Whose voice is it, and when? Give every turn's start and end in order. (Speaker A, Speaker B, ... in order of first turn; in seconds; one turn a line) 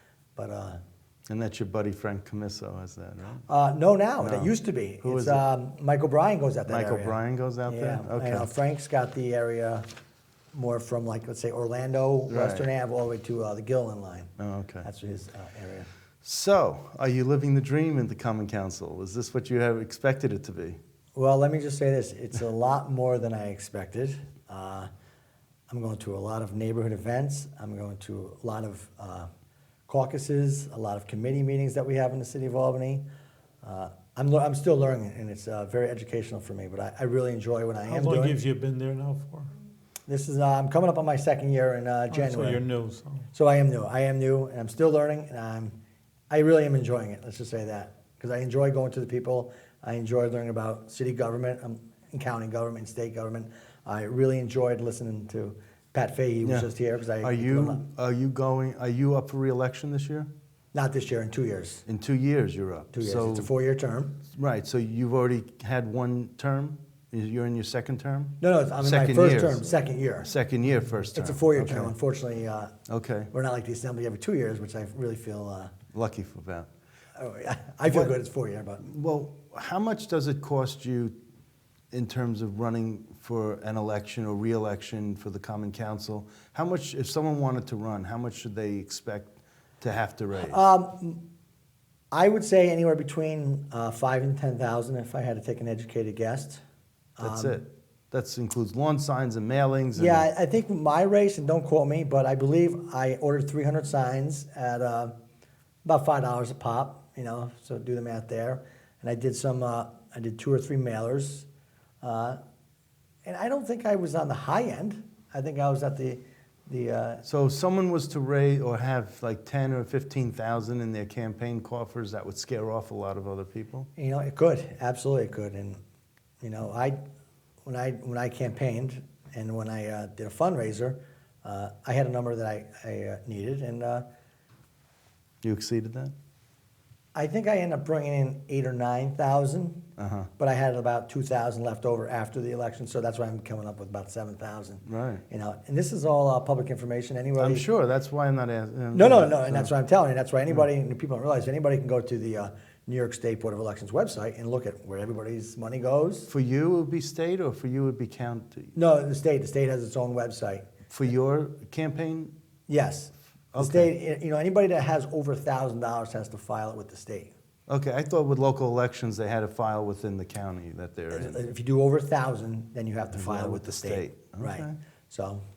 Speaker A: 0.3-0.8
Speaker B: 1.3-3.4
Speaker A: 3.5-9.9
Speaker B: 4.2-5.4
Speaker B: 6.7-8.5
Speaker A: 10.5-14.3
Speaker B: 12.3-12.7
Speaker B: 14.4-14.9
Speaker A: 14.8-15.9
Speaker B: 16.2-20.8
Speaker A: 21.1-24.9
Speaker A: 25.7-29.3
Speaker A: 29.9-33.0
Speaker A: 33.6-38.4
Speaker C: 37.8-39.5
Speaker A: 40.1-42.6
Speaker C: 42.1-43.3
Speaker A: 43.3-45.7
Speaker A: 46.3-57.8
Speaker B: 56.4-56.7
Speaker B: 57.2-60.3
Speaker A: 60.7-61.8
Speaker B: 61.9-63.5
Speaker A: 62.9-64.1
Speaker B: 64.3-71.9
Speaker A: 68.4-70.3
Speaker A: 71.1-72.7
Speaker B: 72.9-73.3
Speaker A: 73.3-75.7
Speaker B: 75.9-76.7
Speaker A: 77.2-78.8
Speaker B: 77.8-78.1
Speaker B: 78.8-81.1
Speaker B: 81.9-90.6
Speaker A: 90.4-91.2
Speaker A: 92.1-96.6
Speaker A: 97.2-97.6
Speaker B: 97.2-100.2
Speaker A: 100.0-105.1
Speaker A: 105.8-111.5
Speaker A: 112.0-112.4
Speaker A: 113.2-117.2
Speaker B: 117.2-123.9
Speaker A: 124.0-125.8
Speaker A: 126.4-127.0
Speaker A: 127.6-134.0
Speaker B: 135.4-136.1
Speaker A: 137.1-139.8
Speaker B: 140.0-140.3
Speaker A: 140.4-147.7
Speaker B: 144.8-145.2
Speaker B: 147.4-149.7
Speaker A: 148.9-156.3
Speaker B: 156.3-158.8
Speaker A: 158.7-160.7
Speaker B: 160.9-162.3
Speaker A: 162.7-167.3
Speaker B: 163.5-163.9
Speaker B: 167.7-171.4
Speaker A: 171.1-175.4
Speaker B: 173.1-174.7